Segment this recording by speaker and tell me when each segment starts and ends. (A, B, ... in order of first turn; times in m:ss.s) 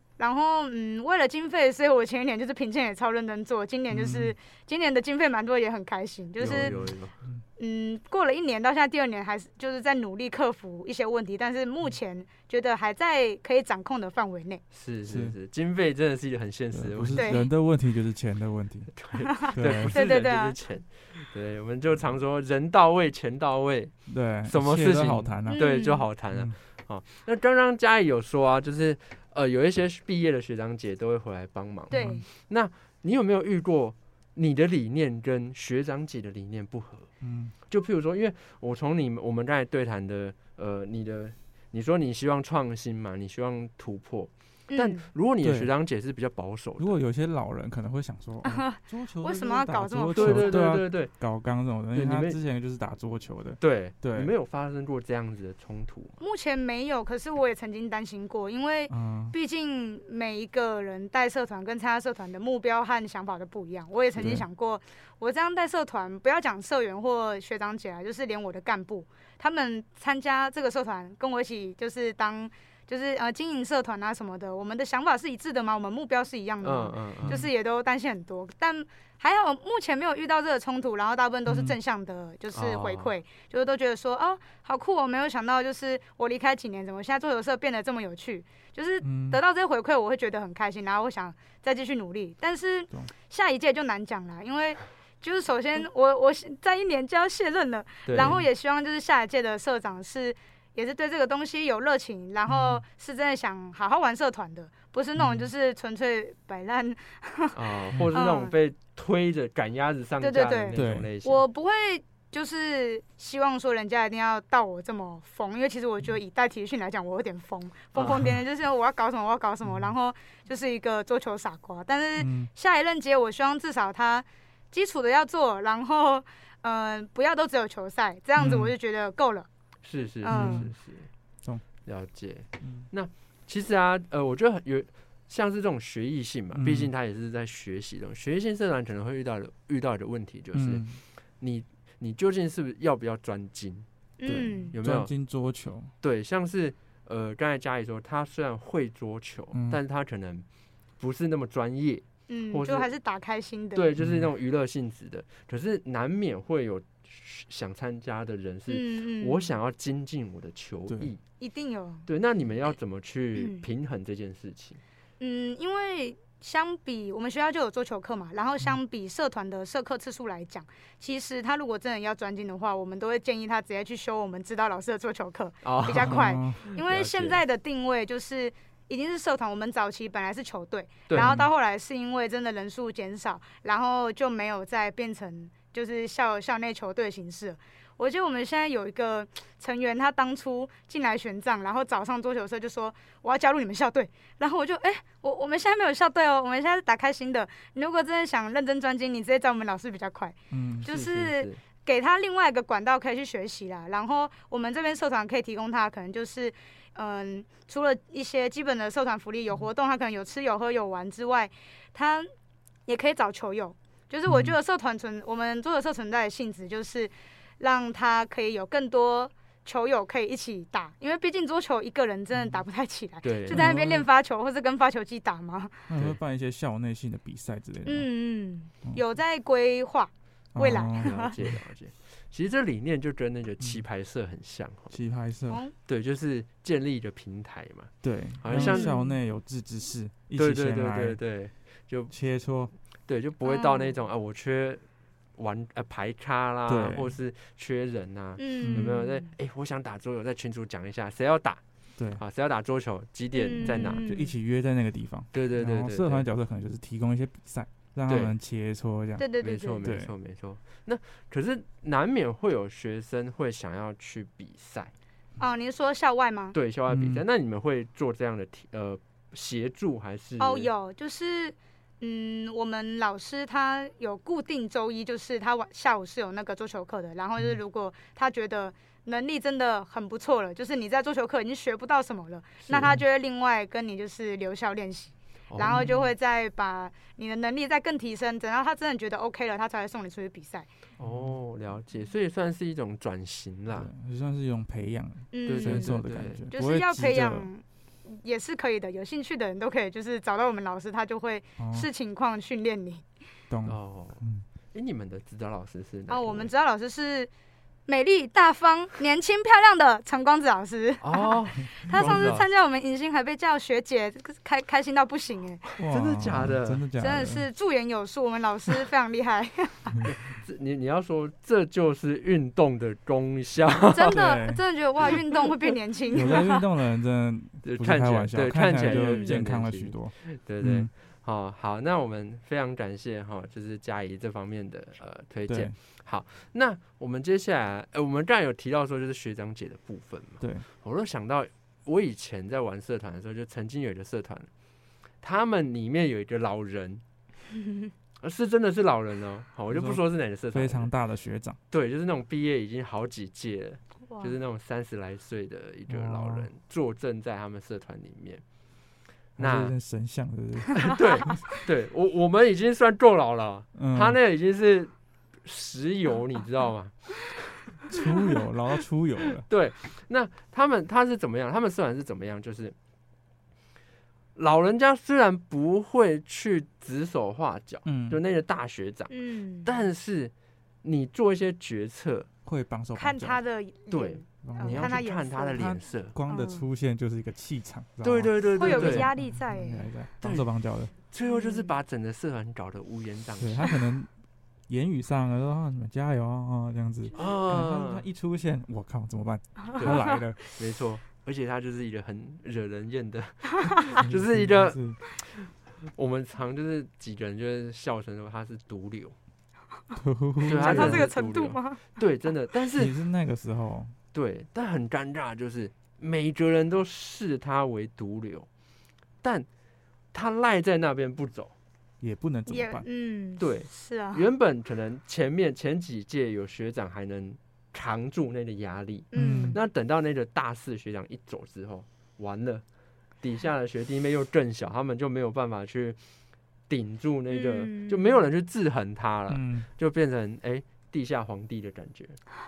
0:00.2-0:06.8 A
0:03.9-0:04.3 B
0:06.4-0:07.1 C
0:06.5-0:07.4 B
0:07.6-0:14.6 A
0:14.7-0:17.4 C
0:15.1-0:15.4 B
0:16.7-0:19.0 B
0:17.1-0:17.5 A
0:18.9-0:37.1 C
0:19.3-0:20.6 A
0:19.5-0:20.0 B
0:24.1-0:25.7 B
0:25.5-0:26.0 A
0:31.9-0:32.3 A
0:31.9-0:32.2 B
0:37.2-0:37.5 B
0:37.7-0:46.9 C
0:44.7-0:45.1 A
0:45.4-0:45.7 B
0:46.8-0:54.3 B
0:48.4-0:50.6 A
0:50.2-0:51.3 C
0:51.9-0:52.4 C
0:53.6-0:56.2 C
0:56.2-1:47.6 A
0:58.9-0:59.4 B
1:16.6-1:17.4 C
1:21.5-1:21.8 B
1:22.5-1:23.1 C
1:29.0-1:29.4 B
1:38.1-1:38.4 C
1:38.2-1:38.4 B
1:42.5-1:42.8 B
1:45.2-1:45.5 B
1:47.5-1:51.4 C
1:48.1-1:48.5 A
1:50.2-2:09.5 A
1:50.7-1:51.1 B
1:58.0-1:58.3 C
2:02.2-2:02.5 B
2:08.4-2:08.7 B
2:09.8-2:11.1 C
2:10.2-2:10.7 A
2:10.3-2:10.7 B
2:11.8-2:20.8 C
2:16.6-2:16.9 B
2:20.5-2:21.0 B
2:21.4-2:23.9 C
2:24.2-2:24.7 A
2:24.3-2:25.9 B
2:24.7-2:25.1 C
2:26.0-2:30.4 C
2:29.5-2:29.8 B
2:31.0-2:32.9 C
2:32.3-2:33.8 A
2:33.8-2:41.2 C
2:34.0-2:34.3 B
2:38.7-2:39.5 A
2:41.4-2:42.1 A
2:42.1-2:44.8 C
2:43.4-2:43.6 A
2:45.2-3:32.3 A
2:55.6-2:57.4 C
2:56.0-2:56.6 B
3:01.1-3:01.4 C
3:01.2-3:01.5 B
3:20.5-3:20.9 B
3:20.8-3:21.6 C
3:32.9-3:45.8 A
3:34.3-3:34.6 B
3:43.2-3:43.7 C
3:43.5-3:44.1 B
3:45.9-3:48.1 B
3:47.9-3:51.3 A
3:50.6-3:51.5 B
3:51.0-3:55.0 C
3:54.9-3:55.6 B
3:55.5-3:55.7 A
3:55.9-3:58.9 C
3:58.0-4:01.2 B
3:58.5-3:59.2 A
4:00.4-4:02.2 C
4:02.1-4:02.7 B
4:03.1-4:04.8 C
4:03.4-4:03.9 A
4:05.4-4:11.6 C
4:06.7-4:07.2 B
4:08.4-4:09.3 A
4:12.0-4:12.2 B
4:12.2-4:14.0 C
4:13.3-4:14.3 A
4:13.6-4:19.3 B
4:15.3-4:16.3 C
4:18.1-4:18.4 C
4:19.2-4:19.8 A
4:19.4-4:24.9 C
4:19.8-4:20.1 B
4:25.4-4:26.6 A
4:26.5-4:30.7 C
4:26.9-4:27.2 B
4:30.4-4:50.7 A
4:42.6-4:43.0 C
4:45.5-4:45.8 C
4:45.7-4:46.1 B
4:51.0-4:51.4 B
4:51.0-4:53.9 C
4:53.7-4:57.5 B
4:55.3-4:56.0 A
4:55.5-4:56.5 C
4:56.5-5:03.0 A
5:01.6-5:01.9 B
5:03.5-5:04.4 B
5:03.6-5:06.5 C
5:06.1-5:07.3 A
5:07.9-5:15.6 A
5:11.0-5:12.5 C
5:15.8-5:16.8 C
5:15.8-5:17.4 B
5:17.0-5:20.1 A
5:20.1-5:24.2 C
5:23.9-5:26.6 A
5:24.0-5:24.6 B
5:26.1-5:30.9 B
5:27.6-5:44.5 C
5:28.9-5:29.4 A
5:35.5-5:35.8 B
5:40.4-5:40.6 B
5:45.2-5:47.0 C
5:48.2-5:50.9 C
5:49.7-5:51.6 B
5:51.7-5:58.4 C
5:54.1-5:54.3 A
5:55.9-5:56.5 B
5:59.4-5:59.7 C
5:59.4-6:01.4 B
6:00.8-6:04.9 C
6:03.8-6:04.2 B
6:05.4-6:07.9 C
6:07.9-6:09.4 B
6:09.5-6:12.8 C
6:14.4-6:19.1 C
6:17.8-6:18.2 B
6:19.1-6:19.8 A
6:19.6-6:20.3 C
6:20.8-6:22.3 C
6:22.4-6:23.4 B
6:23.0-6:26.7 A
6:23.9-6:26.2 C
6:24.4-6:25.0 B
6:25.6-6:30.9 B
6:28.0-6:29.1 C
6:28.6-6:29.9 A
6:30.2-6:33.7 C
6:31.3-6:31.7 A
6:33.4-6:34.1 B
6:34.7-6:40.4 B
6:37.2-6:38.0 C
6:39.8-6:49.2 C
6:44.0-6:45.0 B
6:50.0-6:51.1 B
6:50.4-6:51.8 A
6:50.5-6:52.9 C
6:52.8-6:54.0 B
6:54.1-6:58.5 C
7:00.1-7:01.5 C
7:02.0-7:02.9 B
7:02.5-7:04.3 A
7:03.4-7:12.6 C
7:09.1-7:09.6 A
7:09.1-7:09.6 B
7:13.2-7:16.0 C
7:16.7-7:22.2 C
7:17.3-7:18.2 A
7:19.3-7:19.7 B